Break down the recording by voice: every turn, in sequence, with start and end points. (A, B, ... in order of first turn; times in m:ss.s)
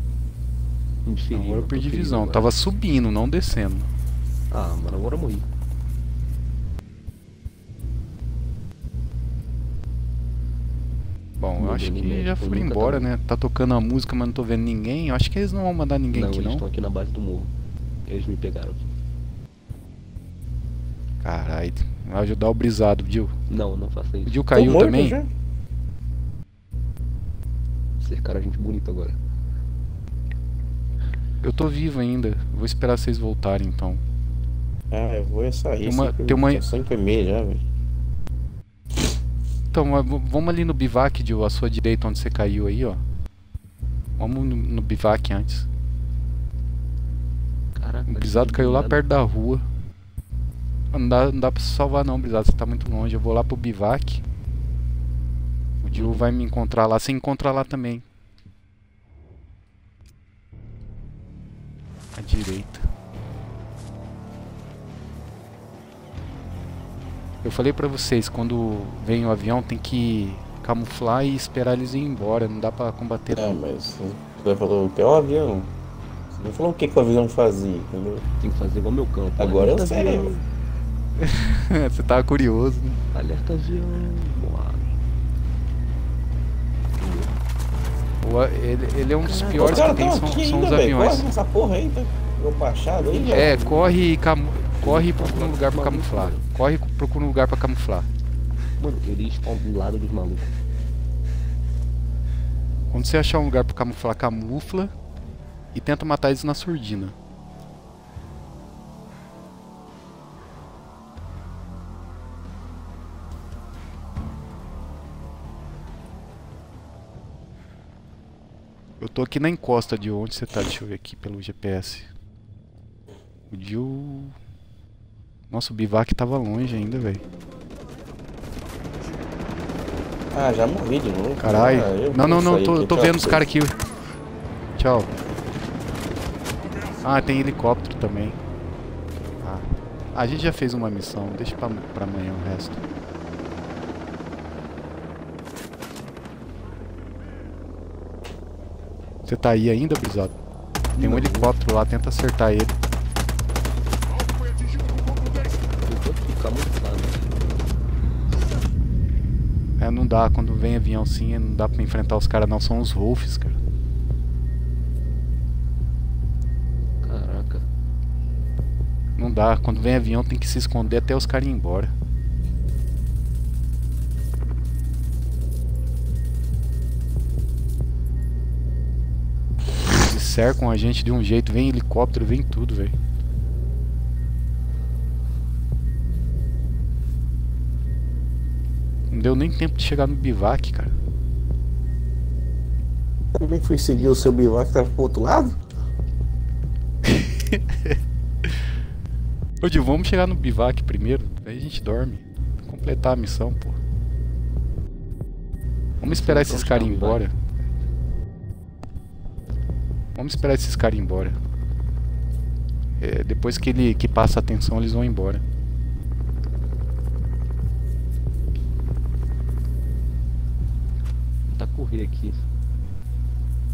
0:01.0-0:02.7 A
0:01.3-0:03.9 B
0:04.5-0:05.5 A
0:11.4-0:16.6 B
0:11.6-0:13.1 A
0:16.1-0:17.5 A
0:18.1-0:18.9 A
0:21.2-0:23.3 B
0:23.5-0:24.8 A
0:24.3-0:25.2 B
0:24.5-0:25.3 C
0:28.0-0:29.2 A
0:31.4-0:34.0 B
0:34.9-0:37.6 C
0:35.8-0:36.6 B
0:39.7-0:43.0 B
0:44.2-0:45.7 B
0:47.7-0:49.0 A
0:48.1-0:49.6 B
0:50.9-0:54.2 B
0:55.8-0:58.0 B
0:55.9-0:56.2 A
1:02.1-1:02.9 B
1:07.4-1:13.6 B
1:13.3-1:15.7 C
1:16.3-1:18.2 C
1:18.4-1:20.4 A
1:19.4-1:20.3 C
1:21.2-1:23.0 B
1:23.1-1:24.9 A
1:27.0-1:27.4 A
1:28.2-1:31.3 B
1:29.2-1:33.5 C
1:29.6-1:30.0 A
1:33.0-1:34.0 A
1:33.3-1:38.1 B
1:34.8-1:36.4 A
1:38.8-1:40.6 A
1:42.9-1:44.9 B
1:45.7-1:47.1 B
1:59.0-2:02.1 B
2:03.5-2:04.3 B
2:05.5-2:07.2 B
2:10.3-2:13.5 C
2:11.4-2:13.8 B
2:14.8-2:15.1 B
2:17.0-2:18.4 B
2:19.4-2:22.8 B
2:29.3-2:30.4 B
2:30.9-2:31.5 A
2:31.0-2:32.7 B
2:35.8-2:37.3 A
2:39.8-2:43.6 B
2:47.0-2:47.6 A
2:49.2-2:51.9 B
2:59.9-3:02.9 B
3:09.1-3:10.9 B
3:13.3-3:15.6 C
3:17.0-3:18.6 B
3:19.6-3:23.8 B
3:26.0-3:27.2 A
3:26.0-3:27.3 B
3:30.2-3:31.4 B
3:33.0-3:35.4 B
3:41.5-3:42.4 A